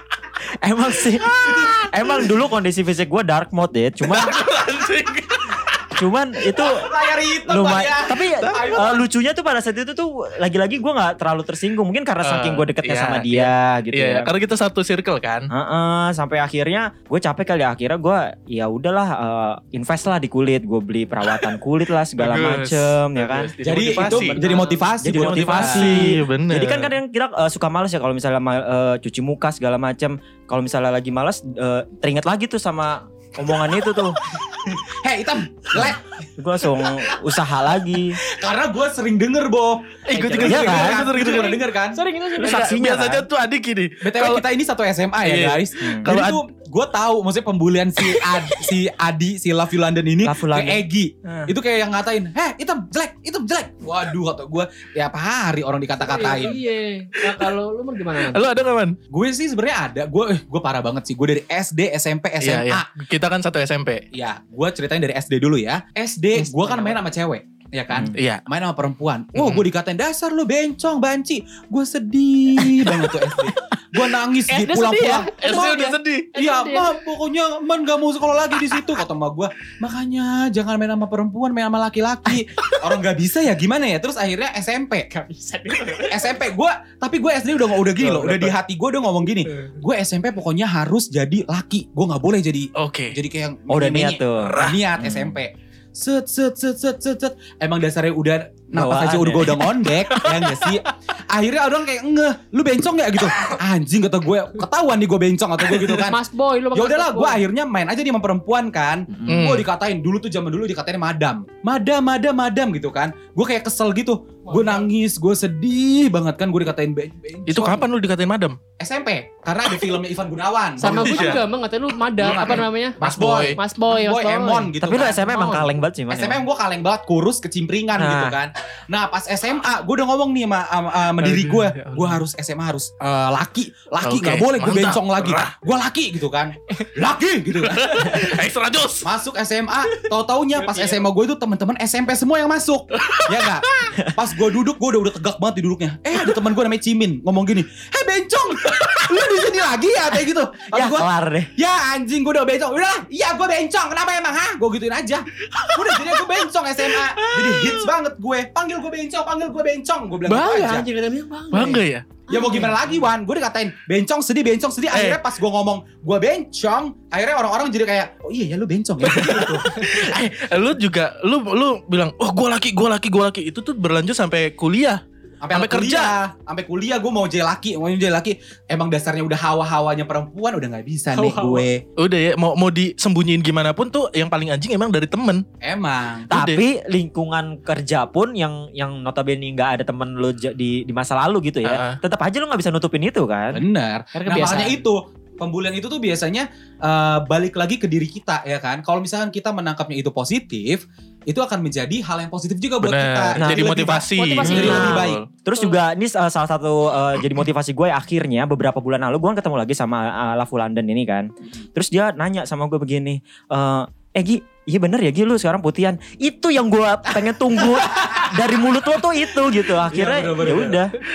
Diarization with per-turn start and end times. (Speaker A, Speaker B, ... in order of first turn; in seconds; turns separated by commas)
Speaker A: 0.6-1.4, Speaker B: 1.2-1.9, Speaker C: 1.4-1.9, Speaker A: 1.9-4.3, Speaker B: 4.0-5.8, Speaker A: 5.9-6.8, Speaker C: 6.5-9.1, Speaker A: 7.5-14.3, Speaker B: 8.4-9.0, Speaker B: 12.2-15.5, Speaker A: 15.5-23.5, Speaker B: 22.2-24.4, Speaker C: 23.6-26.2, Speaker D: 24.1-25.0, Speaker A: 25.0-34.2, Speaker B: 25.0-26.9, Speaker C: 34.4-37.4, Speaker A: 36.4-38.2, Speaker C: 37.9-42.0, Speaker B: 40.1-41.6, Speaker A: 40.2-41.1, Speaker D: 40.2-40.5, Speaker D: 41.3-42.8, Speaker A: 42.4-43.3, Speaker B: 42.4-44.4, Speaker C: 44.0-56.6, Speaker B: 45.2-46.4, Speaker A: 45.8-46.1, Speaker B: 48.0-48.5, Speaker A: 50.2-50.8, Speaker D: 56.0-58.4, Speaker B: 58.1-59.0, Speaker C: 59.1-62.9, Speaker B: 62.4-64.0, Speaker C: 64.1-85.1, Speaker D: 66.4-67.0, Speaker B: 68.1-68.4, Speaker B: 69.3-69.6, Speaker D: 74.5-76.9, Speaker B: 75.3-76.3, Speaker D: 85.1-86.3, Speaker C: 86.0-106.2, Speaker B: 88.0-88.5, Speaker B: 92.8-93.2, Speaker A: 93.7-94.6, Speaker B: 94.4-94.9, Speaker A: 98.7-99.6, Speaker B: 100.1-100.7, Speaker B: 103.2-103.6, Speaker D: 106.0-107.4, Speaker C: 106.7-117.8, Speaker B: 109.3-109.7, Speaker D: 114.5-114.8, Speaker B: 117.5-118.6, Speaker C: 118.8-121.4, Speaker D: 120.8-123.0, Speaker B: 120.8-121.4, Speaker B: 122.2-123.6, Speaker C: 122.2-125.4, Speaker D: 123.5-124.7, Speaker A: 124.8-126.4, Speaker D: 125.3-125.7, Speaker C: 126.1-138.4, Speaker A: 128.0-128.3, Speaker B: 131.2-132.2, Speaker B: 134.0-135.5, Speaker B: 137.6-139.1, Speaker C: 139.0-160.9, Speaker D: 140.6-141.0, Speaker B: 142.9-143.9, Speaker A: 150.7-151.5, Speaker B: 155.4-156.3, Speaker B: 156.9-157.9, Speaker D: 160.3-162.9, Speaker B: 161.5-162.1, Speaker C: 162.3-169.7, Speaker B: 164.9-165.2, Speaker B: 169.0-175.0, Speaker D: 169.6-169.9, Speaker C: 175.4-181.8, Speaker B: 175.5-176.1, Speaker D: 181.1-181.7, Speaker B: 182.0-185.4, Speaker C: 185.6-186.3, Speaker B: 186.3-186.6, Speaker A: 186.3-193.6, Speaker B: 191.6-192.0, Speaker C: 193.5-205.2, Speaker D: 194.2-194.8, Speaker B: 202.8-205.3, Speaker A: 203.4-203.7, Speaker D: 204.1-205.8, Speaker A: 204.5-220.9, Speaker C: 217.6-218.3, Speaker C: 219.9-220.8